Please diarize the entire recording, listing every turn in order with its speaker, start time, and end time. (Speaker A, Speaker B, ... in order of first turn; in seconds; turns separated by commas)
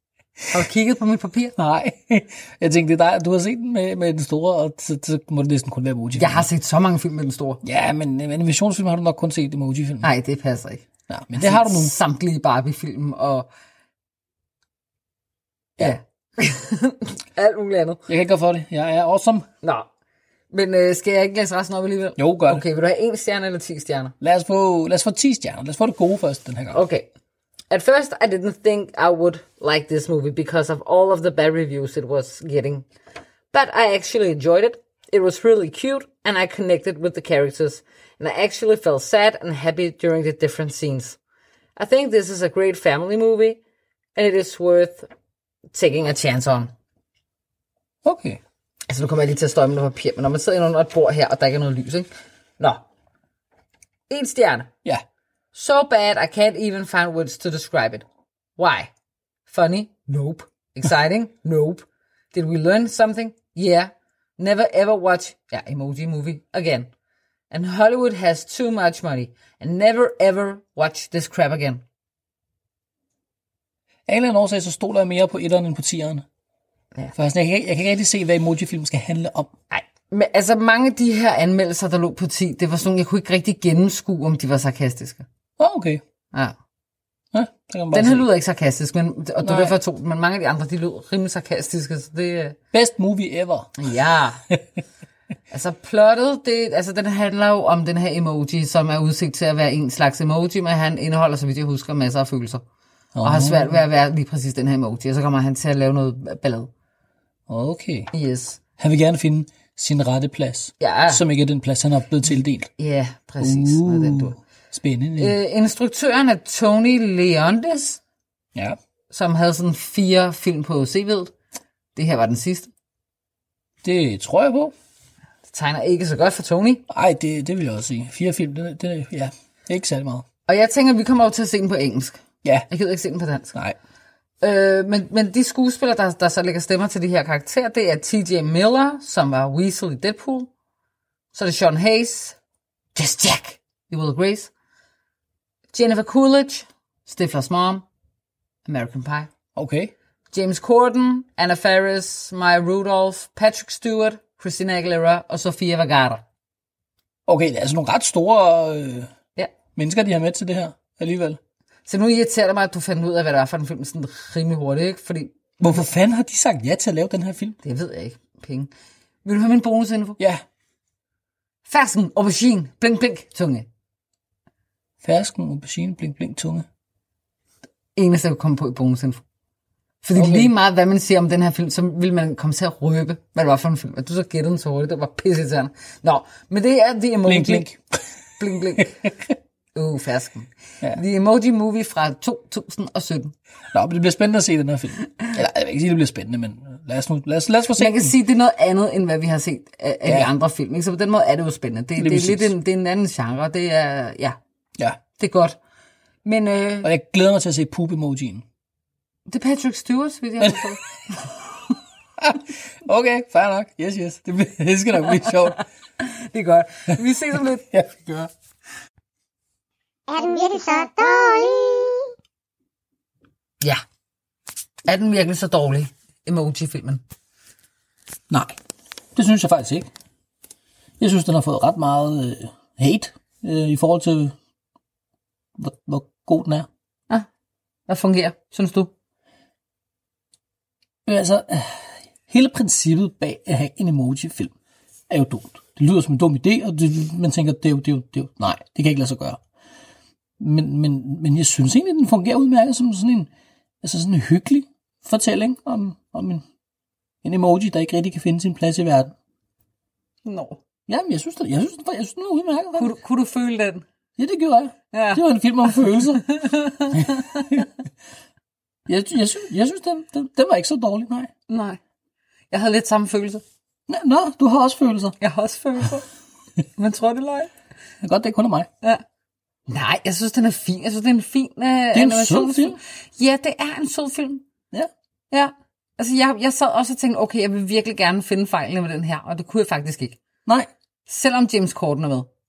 Speaker A: 0.5-1.5, Speaker B: 1.6-6.5, Speaker A: 6.1-7.6, Speaker B: 7.6-10.1, Speaker A: 10.0-13.5, Speaker B: 11.1-11.9, Speaker A: 15.8-18.0, Speaker B: 18.1-19.5, Speaker A: 19.6-19.9, Speaker A: 20.5-24.1, Speaker B: 22.1-22.6, Speaker B: 24.2-26.8, Speaker A: 26.7-27.1, Speaker A: 27.7-32.9, Speaker A: 33.5-41.2, Speaker A: 41.8-43.6, Speaker A: 44.1-45.1, Speaker A: 45.7-46.7, Speaker B: 48.0-48.4, Speaker A: 48.9-52.1, Speaker A: 54.1-54.7, Speaker A: 55.5-58.0, Speaker A: 58.6-58.9, Speaker A: 59.5-66.9, Speaker A: 67.5-71.8, Speaker B: 74.1-76.2, Speaker B: 77.1-79.5, Speaker A: 79.7-85.2, Speaker B: 85.6-86.0, Speaker B: 87.3-88.3, Speaker A: 87.9-92.6, Speaker B: 89.4-89.7, Speaker B: 92.7-93.7, Speaker A: 93.8-94.4, Speaker A: 95.5-102.6, Speaker B: 103.2-103.8, Speaker A: 103.2-106.7, Speaker B: 107.5-108.1, Speaker A: 108.1-108.6, Speaker B: 108.8-112.7, Speaker A: 110.8-111.2, Speaker A: 112.8-114.4, Speaker B: 113.4-115.4, Speaker A: 115.2-118.0, Speaker A: 119.1-121.3, Speaker A: 122.0-122.7, Speaker B: 123.8-124.7, Speaker A: 125.5-126.8, Speaker B: 126.9-130.2, Speaker A: 130.5-133.5, Speaker A: 134.4-140.5, Speaker A: 141.3-142.3, Speaker A: 142.9-144.5, Speaker A: 145.7-147.8, Speaker A: 148.7-149.3, Speaker B: 149.5-149.9, Speaker A: 150.3-156.2, Speaker B: 157.3-159.1, Speaker B: 159.7-161.4, Speaker A: 161.8-165.8, Speaker B: 165.6-167.6, Speaker A: 167.6-168.7, Speaker A: 169.2-170.2, Speaker A: 171.7-173.7, Speaker B: 175.0-176.7, Speaker A: 177.9-179.2, Speaker A: 180.0-187.7, Speaker B: 180.2-180.5, Speaker B: 187.2-188.0, Speaker A: 188.4-188.9, Speaker B: 188.8-189.3, Speaker A: 189.7-193.3, Speaker B: 193.7-198.1, Speaker A: 197.8-204.4, Speaker B: 202.0-202.5, Speaker A: 205.2-205.6, Speaker A: 206.2-206.9, Speaker B: 206.8-208.4, Speaker A: 209.3-211.3, Speaker B: 210.4-210.8, Speaker B: 212.2-215.6, Speaker A: 216.0-217.6, Speaker B: 217.7-218.3, Speaker C: 220.1-222.1, Speaker A: 224.8-227.0, Speaker B: 228.3-228.6, Speaker B: 229.2-229.9, Speaker B: 231.0-234.3, Speaker B: 235.6-236.7, Speaker A: 237.9-238.9, Speaker B: 241.1-244.5, Speaker B: 245.1-249.4, Speaker B: 250.4-253.3, Speaker B: 253.8-256.4, Speaker B: 257.2-259.1, Speaker A: 260.2-260.6, Speaker B: 260.9-262.9, Speaker A: 262.8-263.8, Speaker B: 264.2-266.3, Speaker A: 264.9-267.6, Speaker B: 266.9-267.7, Speaker B: 268.9-271.3, Speaker A: 271.5-271.8, Speaker A: 272.5-273.4, Speaker B: 273.9-275.2, Speaker A: 275.2-276.0, Speaker A: 276.8-277.5, Speaker B: 278.0-278.7, Speaker A: 279.7-284.5, Speaker B: 281.9-282.8, Speaker A: 285.3-290.2, Speaker A: 291.1-292.3